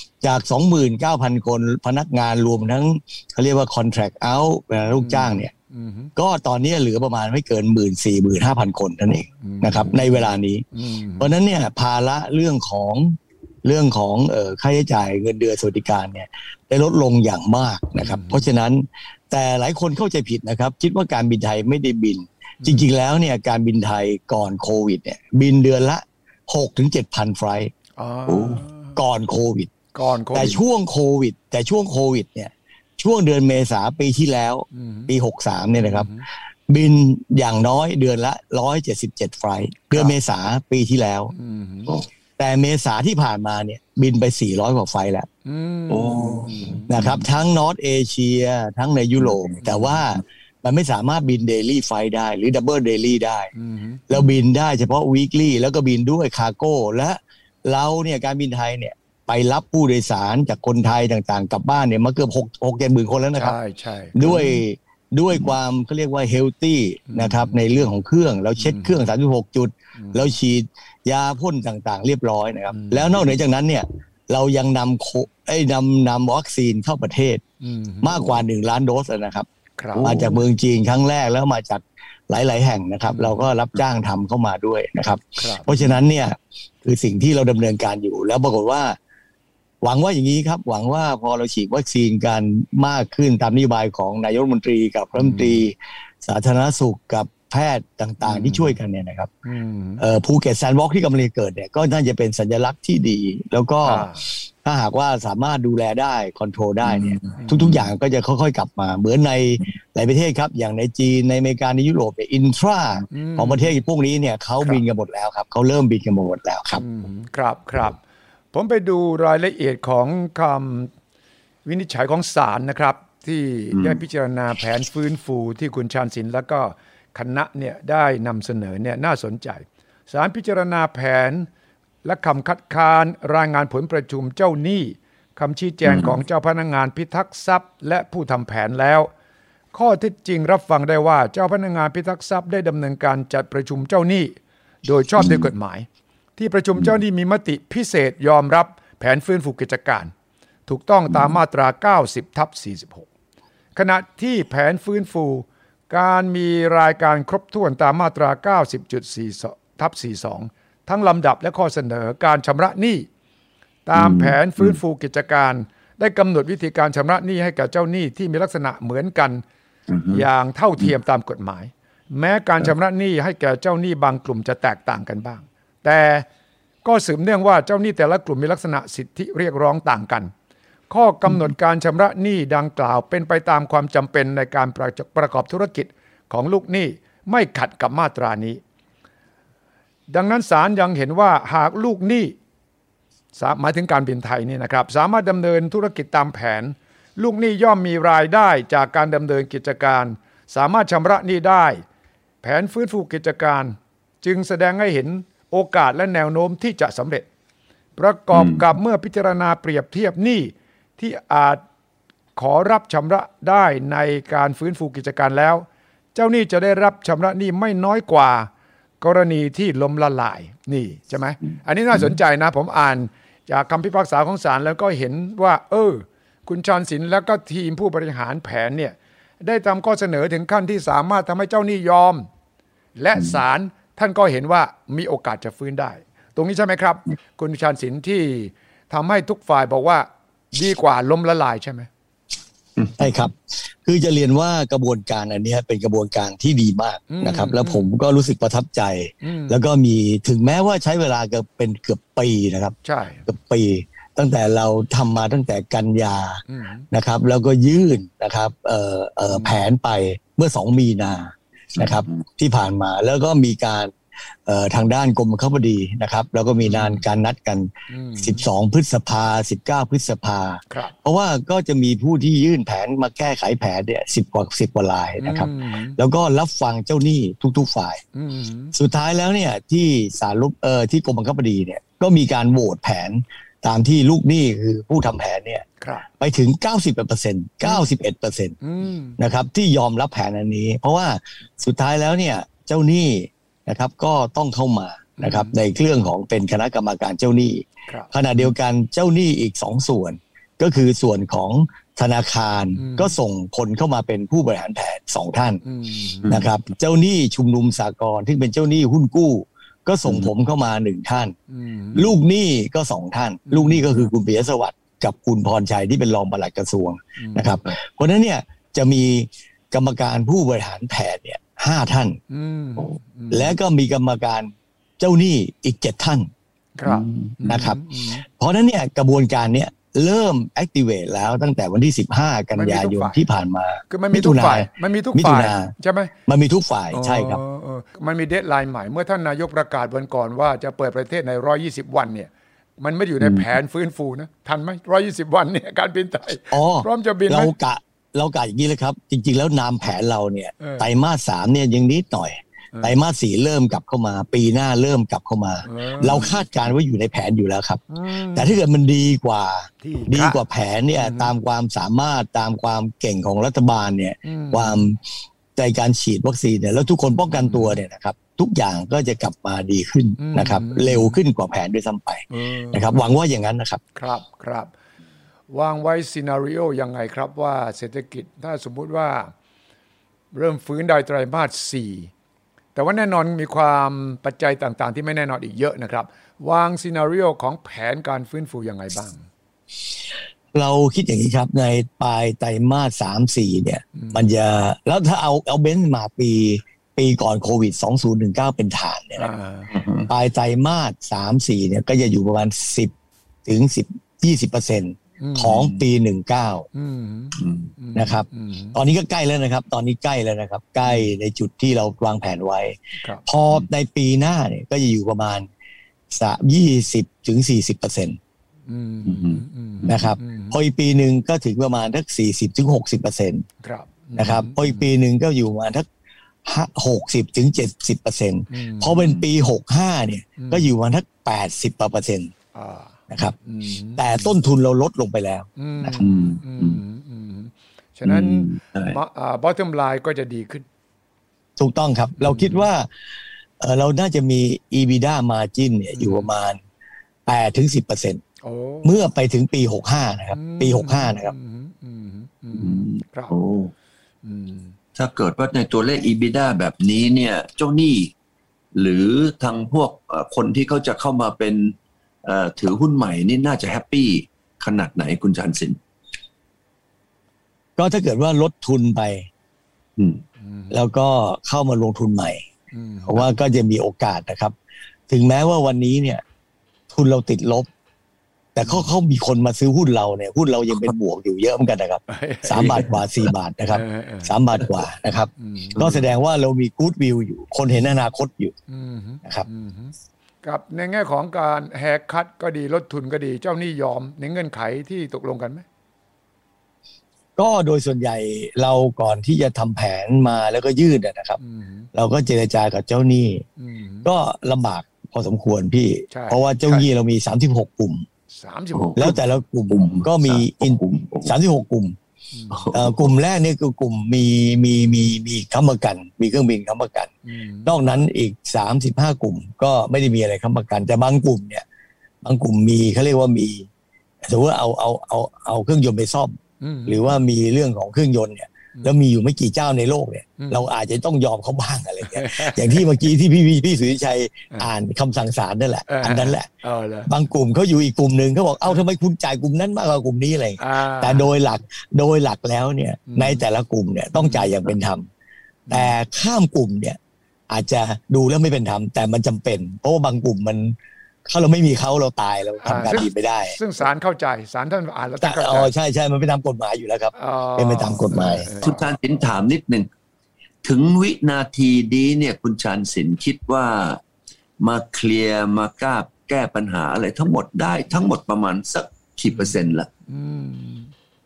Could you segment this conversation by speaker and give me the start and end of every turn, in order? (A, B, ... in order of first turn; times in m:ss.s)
0:00.2-0:05.5 A
0:05.0-0:06.1 B
0:06.2-0:27.7 A
0:09.4-0:11.3 B
0:18.0-0:18.4 B
0:22.6-0:22.9 B
0:28.0-0:29.0 B
0:28.3-0:28.6 C
0:29.0-0:29.7 A
0:29.9-0:30.6 B
0:30.3-0:36.1 A
0:34.7-0:35.1 B
0:35.8-0:36.2 B
0:36.7-0:41.3 A
0:41.3-0:41.9 B
0:42.4-0:45.3 A
0:45.4-0:47.0 B
0:45.9-0:47.2 C
0:46.9-0:53.5 A
0:49.3-0:49.6 C
0:49.6-0:50.0 B
0:53.5-0:54.0 B
0:54.1-1:03.6 A
1:03.3-1:04.6 B
1:04.2-1:17.4 A
1:07.1-1:07.6 B
1:08.6-1:09.1 B
1:10.0-1:10.3 B
1:12.7-1:13.3 B
1:17.6-1:18.2 B
1:18.0-1:29.0 A
1:19.8-1:20.3 B
1:19.9-1:20.4 C
1:23.1-1:23.4 B
1:25.4-1:25.7 B
1:29.8-1:39.3 A
1:35.1-1:35.6 B
1:38.2-1:38.8 B
1:39.4-1:40.0 B
1:40.0-1:44.1 A
1:43.8-1:44.3 B
1:44.6-1:56.8 A
1:46.9-1:47.4 C
1:47.4-1:47.8 B
1:53.1-1:53.8 B
1:56.8-1:58.0 B
1:58.5-2:00.9 B
2:01.6-2:11.5 B
2:12.0-2:19.1 B
2:15.8-2:16.1 C
2:19.7-2:30.1 B
2:30.7-2:33.1 B
2:33.8-2:43.1 B
2:43.8-2:49.4 B
2:44.0-2:44.8 C
2:49.9-2:50.2 C
2:50.1-2:56.2 B
2:56.8-3:00.3 B
3:00.9-3:08.6 B
3:10.1-3:12.4 B
3:13.3-3:21.8 B
3:22.4-3:27.3 B
3:28.0-3:31.6 B
3:28.3-3:28.6 C
3:32.4-3:38.5 B
3:39.0-3:52.3 B
3:53.0-4:01.9 B
4:03.0-4:12.7 A
4:07.1-4:07.8 B
4:09.2-4:09.6 B
4:12.8-4:13.3 B
4:13.3-4:23.9 A
4:16.5-4:16.8 B
4:19.3-4:19.6 B
4:21.8-4:22.2 C
4:24.4-4:38.0 A
4:26.7-4:27.0 B
4:27.9-4:28.4 B
4:35.2-4:36.0 B
4:38.1-4:38.7 B
4:38.7-4:45.6 A
4:45.8-4:46.0 B
4:46.2-4:48.6 A
4:48.6-4:49.2 B
4:49.2-5:05.6 A
4:55.2-4:55.6 B
5:02.8-5:03.1 B
5:05.6-5:06.4 B
5:06.2-5:06.5 C
5:06.3-5:11.4 A
5:11.5-5:12.1 B
5:12.0-5:22.2 A
5:13.5-5:14.1 B
5:17.2-5:17.6 B
5:22.3-5:23.5 B
5:23.3-5:26.3 A
5:26.8-5:28.2 B
5:26.8-5:27.4 C
5:27.4-5:35.7 A
5:32.5-5:33.2 B
5:33.9-5:36.1 B
5:36.3-5:37.4 A
5:36.9-5:47.5 B
5:43.2-5:43.5 C
5:46.5-6:05.0 A
5:50.6-5:50.9 B
5:55.6-5:56.4 B
5:57.9-5:58.6 B
5:59.8-6:00.4 B
6:01.0-6:01.3 B
6:04.2-6:04.8 B
6:05.6-6:13.8 A
6:07.3-6:07.8 B
6:10.2-6:11.2 B
6:12.3-6:13.1 B
6:13.9-6:14.7 B
6:15.5-6:19.3 B
6:20.3-6:22.1 B
6:22.7-6:29.2 B
6:30.5-6:39.3 A
6:34.0-6:34.3 B
6:39.2-6:39.7 B
6:39.7-6:40.1 C
6:40.1-6:42.9 A
6:43.4-6:46.7 A
6:45.2-6:45.7 B
6:46.7-6:48.8 B
6:47.4-6:47.7 C
6:47.9-6:55.5 A
6:50.8-6:51.1 B
6:56.1-6:58.2 A
6:58.7-7:00.6 B
6:59.0-7:00.1 C
6:59.9-7:03.4 A
7:03.6-7:04.9 B
7:04.1-7:05.8 A
7:06.4-7:12.3 A
7:08.5-7:09.2 B
7:10.4-7:10.7 B
7:12.5-7:14.3 B
7:13.1-7:13.4 A
7:14.0-7:16.0 A
7:15.6-7:20.6 B
7:16.0-7:16.8 C
7:18.0-7:19.0 C
7:21.6-7:22.9 A
7:22.2-7:22.6 B
7:23.6-7:26.6 A
7:25.9-7:26.3 B
7:27.2-7:28.2 A
7:28.4-7:28.9 B
7:28.8-7:31.3 A
7:30.3-7:33.3 B
7:32.5-7:33.7 C
7:34.2-7:34.8 B
7:35.0-7:38.1 C
7:38.7-7:45.8 C
7:47.8-7:49.3 A
7:50.0-7:50.2 C
7:50.4-7:50.8 B
7:50.7-7:52.4 A
7:52.7-7:53.3 B
7:53.1-7:54.5 A
7:55.1-7:56.2 A
7:56.9-7:57.7 A
7:58.5-8:08.5 A
8:02.1-8:03.0 B
8:02.5-8:02.9 C
8:03.7-8:04.4 B
8:05.4-8:05.9 B
8:05.8-8:06.1 C
8:08.7-8:15.6 B
8:17.4-8:21.4 A
8:21.4-8:21.9 B
8:21.9-8:23.4 A
8:23.6-8:24.1 B
8:24.0-8:28.0 A
8:26.1-8:26.8 B
8:28.3-8:29.2 B
8:28.7-8:29.2 C
8:29.0-8:32.0 A
8:29.7-8:31.3 C
8:32.3-8:32.6 B
8:32.5-8:33.1 C
8:32.7-8:37.1 A
8:37.2-8:37.8 B
8:37.6-8:41.6 A
8:42.2-8:43.7 A
8:44.2-8:56.5 A
8:46.6-8:47.2 B
8:50.4-8:50.6 B
8:52.1-8:52.8 B
8:55.9-8:57.1 B
8:57.1-9:05.0 A
9:00.6-9:01.3 B
9:03.1-9:03.4 B
9:04.1-9:04.5 B
9:05.7-9:05.9 B
9:05.7-9:13.6 A
9:12.6-9:15.7 B
9:15.2-9:18.5 A
9:17.1-9:18.7 B
9:18.6-9:19.9 C
9:20.6-9:24.0 C
9:24.6-9:29.9 C
9:30.1-9:30.9 B